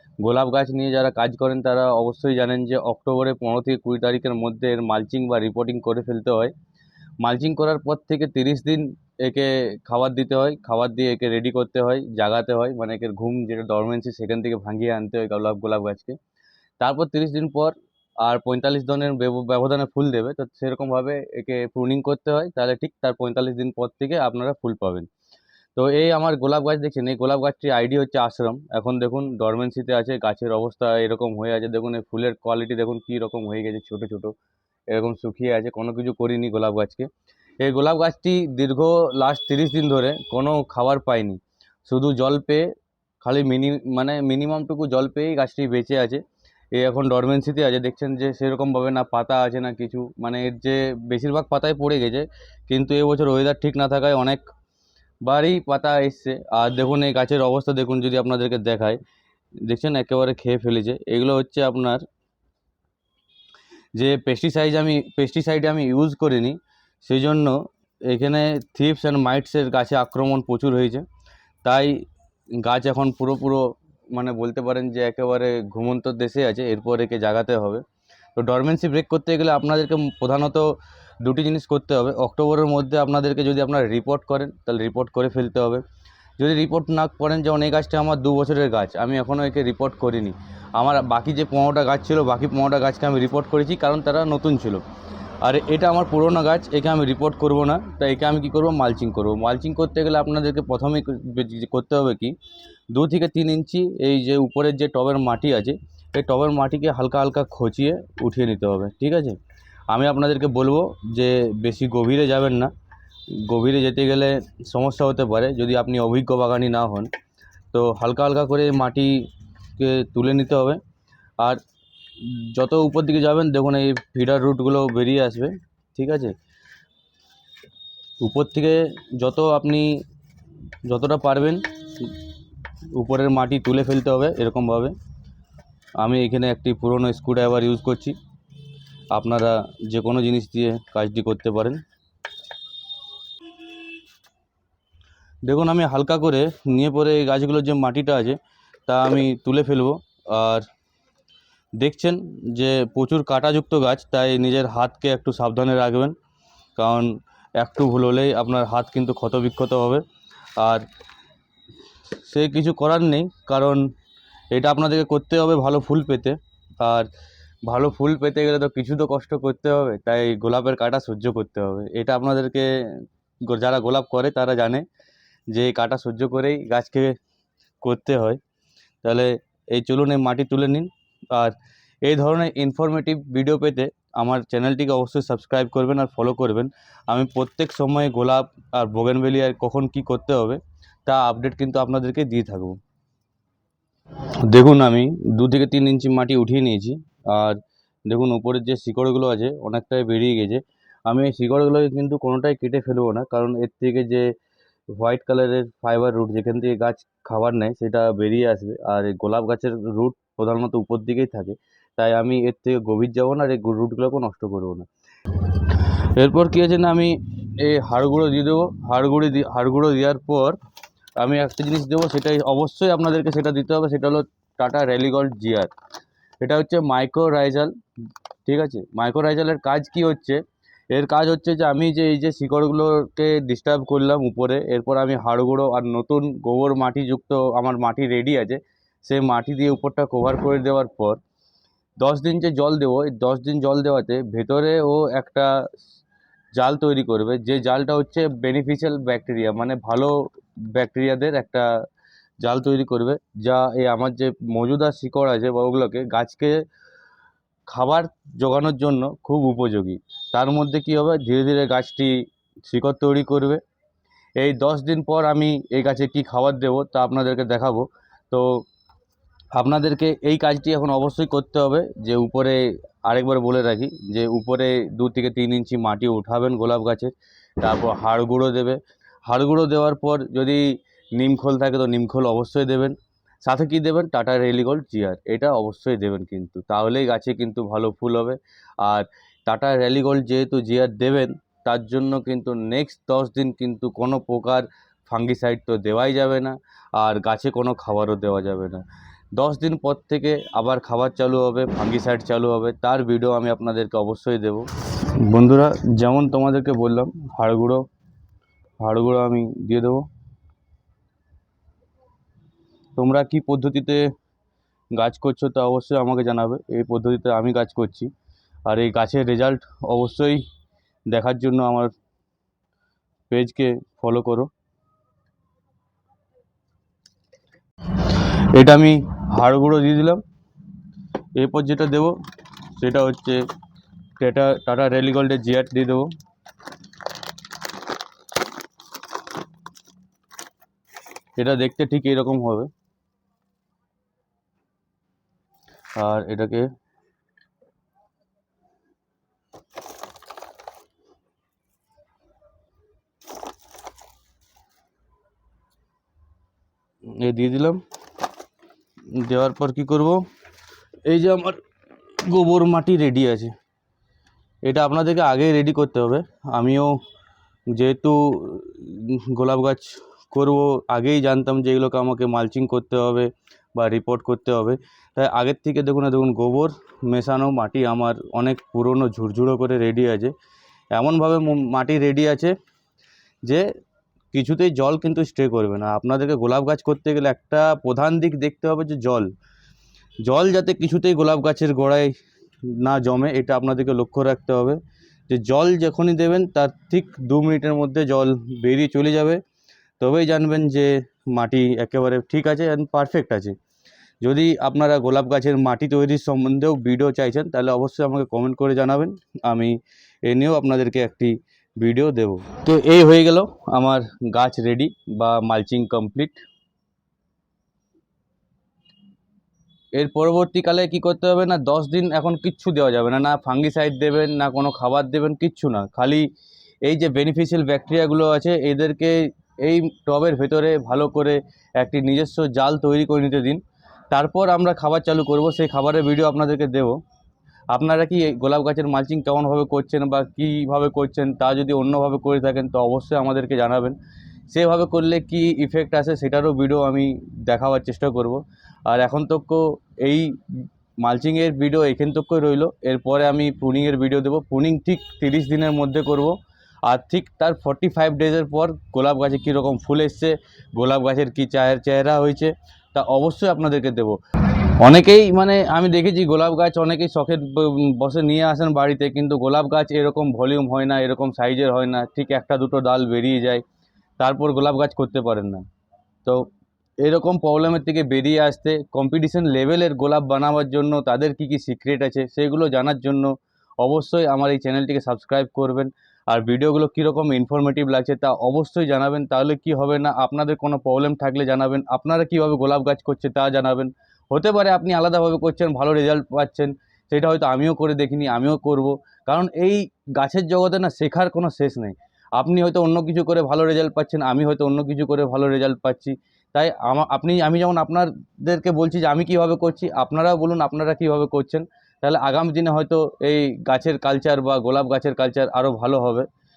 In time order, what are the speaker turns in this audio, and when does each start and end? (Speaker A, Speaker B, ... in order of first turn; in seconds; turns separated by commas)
Speaker A: 0.2-6.5, Speaker A: 7.2-16.2, Speaker A: 16.8-25.1, Speaker A: 25.8-34.3, Speaker A: 34.9-37.1, Speaker A: 37.6-46.2, Speaker A: 46.7-54.5, Speaker A: 55.2-59.0, Speaker A: 59.6-62.0, Speaker A: 63.9-71.0, Speaker A: 71.6-72.0, Speaker A: 72.6-77.8, Speaker A: 78.3-85.8, Speaker A: 86.4-94.8, Speaker A: 95.4-102.3, Speaker A: 102.9-109.4, Speaker A: 109.9-112.7, Speaker A: 113.3-117.1, Speaker A: 117.7-120.8, Speaker A: 122.2-126.3, Speaker A: 128.2-130.0, Speaker A: 130.8-132.1, Speaker A: 132.9-134.9, Speaker A: 136.0-138.2, Speaker A: 139.1-141.8, Speaker A: 145.4-150.7, Speaker A: 151.8-156.1, Speaker A: 156.8-160.0, Speaker A: 160.6-160.9, Speaker A: 162.1-163.9, Speaker A: 164.5-167.1, Speaker A: 167.7-174.8, Speaker A: 175.5-177.2, Speaker A: 177.8-178.4, Speaker A: 179.0-192.8, Speaker A: 194.5-204.3, Speaker A: 204.9-220.6, Speaker A: 221.2-225.7, Speaker A: 226.4-227.7, Speaker A: 228.4-241.2, Speaker A: 242.0-245.7, Speaker A: 246.6-250.2, Speaker A: 250.7-251.7, Speaker A: 252.4-256.6, Speaker A: 257.7-263.6, Speaker A: 264.4-268.6, Speaker A: 269.5-298.8, Speaker A: 299.3-307.8, Speaker A: 308.8-310.0, Speaker A: 313.0-314.1, Speaker A: 314.9-318.1, Speaker A: 318.7-320.4, Speaker A: 321.1-321.9, Speaker A: 323.3-324.5, Speaker A: 328.0-330.2, Speaker A: 331.4-332.1, Speaker A: 332.7-333.4, Speaker A: 334.2-336.1, Speaker A: 341.4-342.7, Speaker A: 345.9-346.7, Speaker A: 357.1-357.8, Speaker A: 359.1-360.2, Speaker A: 361.0-361.6, Speaker A: 362.1-363.5, Speaker A: 364.6-367.0, Speaker A: 367.7-380.3, Speaker A: 380.9-382.5, Speaker A: 384.3-389.3, Speaker A: 390.2-392.1, Speaker A: 392.6-399.4, Speaker A: 400.0-403.5, Speaker A: 404.2-416.4, Speaker A: 419.9-426.3, Speaker A: 426.8-437.0, Speaker A: 437.7-444.0, Speaker A: 444.5-464.2, Speaker A: 464.8-473.6, Speaker A: 474.2-475.6, Speaker A: 477.0-516.3